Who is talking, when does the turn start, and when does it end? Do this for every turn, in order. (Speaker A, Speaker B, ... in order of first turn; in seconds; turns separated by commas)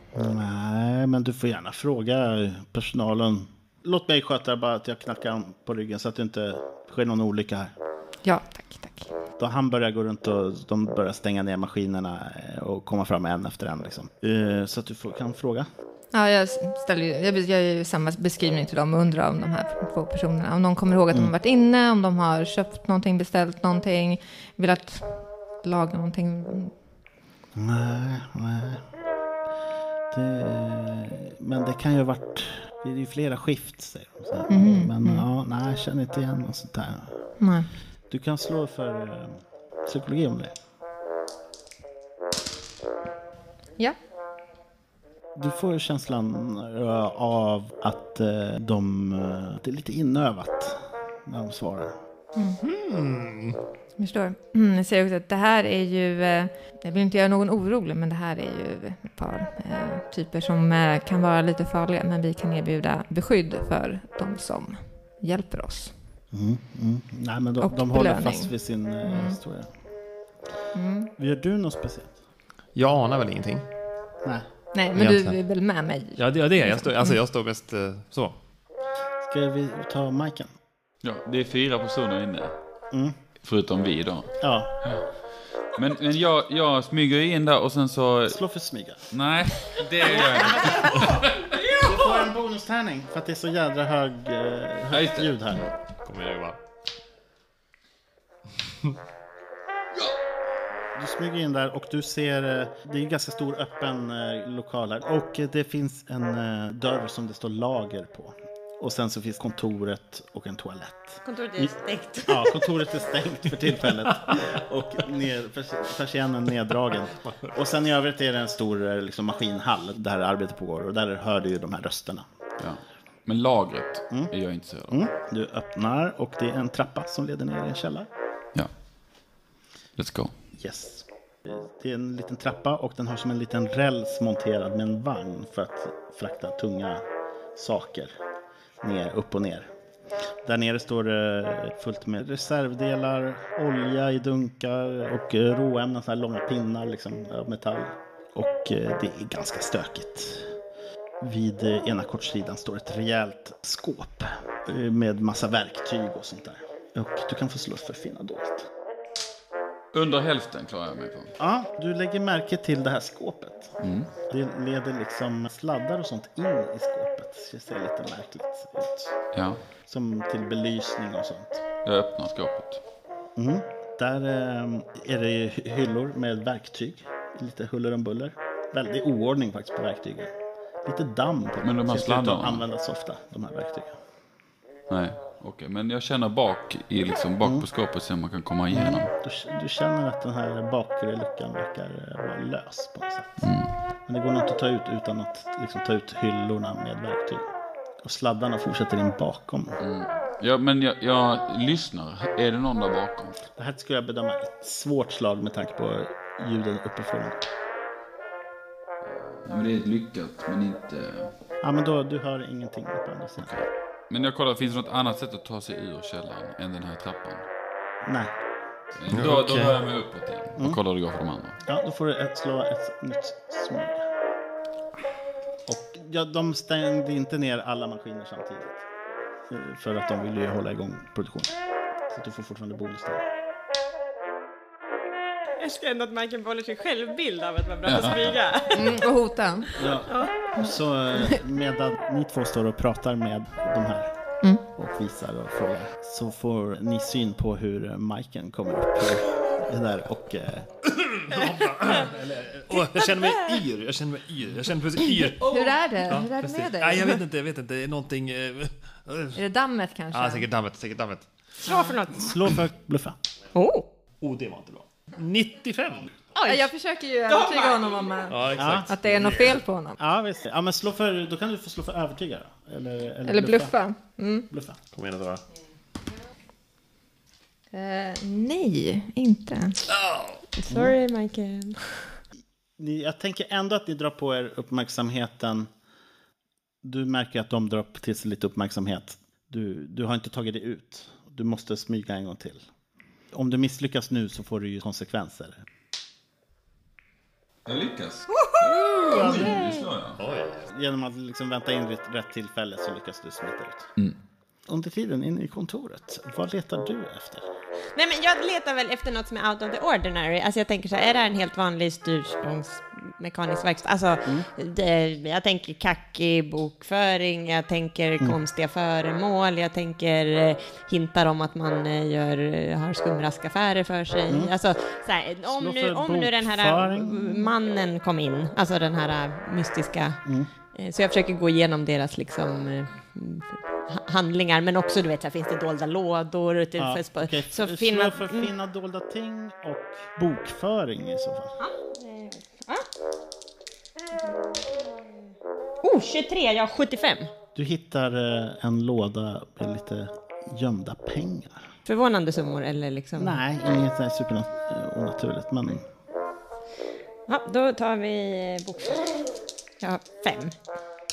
Speaker A: 0.1-7.7, Speaker B: 8.2-9.1, Speaker A: 9.4-15.7, Speaker B: 16.1-26.7, Speaker A: 27.6-28.9, Speaker A: 30.1-37.2, Speaker B: 34.5-35.2, Speaker B: 37.4-37.7, Speaker A: 38.1-40.5, Speaker A: 45.3-52.0, Speaker B: 52.3-52.6, Speaker C: 52.5-53.6, Speaker B: 54.0-65.9, Speaker A: 66.3-69.7, Speaker B: 67.6-68.5, Speaker B: 69.0-69.4, Speaker B: 70.7-71.1, Speaker A: 71.2-72.1, Speaker C: 72.7-73.7, Speaker B: 74.7-77.2, Speaker C: 74.9-75.4, Speaker C: 76.2-78.3, Speaker A: 79.2-80.5, Speaker D: 81.0-82.5, Speaker D: 83.4-85.0, Speaker A: 84.4-84.7, Speaker D: 85.7-88.4, Speaker A: 88.3-89.0, Speaker D: 89.1-91.5, Speaker A: 91.7-95.7, Speaker D: 94.9-95.6, Speaker C: 96.0-96.6, Speaker A: 101.0-111.7, Speaker E: 111.2-112.7, Speaker A: 112.2-122.2, Speaker D: 122.6-125.0, Speaker A: 124.9-128.1, Speaker D: 129.9-130.3, Speaker A: 130.6-137.0, Speaker A: 137.5-138.1, Speaker A: 138.8-139.7, Speaker A: 140.4-150.5, Speaker A: 151.2-158.7, Speaker D: 159.9-161.3, Speaker A: 161.4-163.7, Speaker D: 163.8-164.1, Speaker A: 164.3-169.1, Speaker D: 169.3-169.6, Speaker A: 169.8-171.6, Speaker D: 171.8-172.8, Speaker A: 173.3-180.3, Speaker A: 180.8-184.0, Speaker D: 181.6-182.6, Speaker D: 184.9-189.1, Speaker A: 188.7-197.4, Speaker D: 193.4-193.7, Speaker A: 198.0-199.8, Speaker D: 199.8-203.4, Speaker A: 203.6-207.4, Speaker D: 209.0-211.3, Speaker A: 211.6-213.5, Speaker D: 213.4-217.4, Speaker A: 218.0-218.3, Speaker D: 218.9-221.6, Speaker C: 219.1-219.8, Speaker A: 221.6-224.1, Speaker A: 225.7-228.8, Speaker A: 229.5-231.5, Speaker A: 232.1-233.3, Speaker E: 235.6-238.9, Speaker D: 237.8-238.4, Speaker B: 238.7-239.8, Speaker A: 239.8-244.1, Speaker E: 240.1-240.3, Speaker A: 244.8-250.7, Speaker C: 250.9-259.4, Speaker E: 252.9-253.6, Speaker B: 255.4-257.2, Speaker B: 259.3-260.5, Speaker C: 260.1-261.3, Speaker E: 261.6-262.3, Speaker A: 262.1-263.2, Speaker E: 263.5-263.8, Speaker C: 264.2-266.1, Speaker E: 266.3-266.7, Speaker B: 266.4-270.0, Speaker E: 267.3-268.0, Speaker C: 268.3-269.6, Speaker A: 268.6-268.9, Speaker A: 270.0-273.8, Speaker B: 273.2-274.5, Speaker A: 274.5-274.8, Speaker C: 274.9-275.4, Speaker B: 277.7-279.8, Speaker C: 279.9-280.4, Speaker E: 280.6-282.2, Speaker A: 280.7-280.9, Speaker A: 282.8-285.7, Speaker A: 286.8-292.6, Speaker A: 293.3-295.6, Speaker D: 297.6-300.2, Speaker A: 299.1-299.5, Speaker C: 299.2-299.5, Speaker E: 299.3-299.7, Speaker C: 300.2-300.7, Speaker A: 300.7-303.9, Speaker A: 304.7-307.5, Speaker E: 307.9-330.2, Speaker A: 325.5-327.5, Speaker E: 330.7-338.5, Speaker A: 336.8-341.6, Speaker E: 341.6-342.9, Speaker E: 345.8-347.3, Speaker A: 347.5-351.7, Speaker E: 351.9-353.8, Speaker A: 353.2-355.8, Speaker E: 357.3-359.2, Speaker E: 359.8-360.5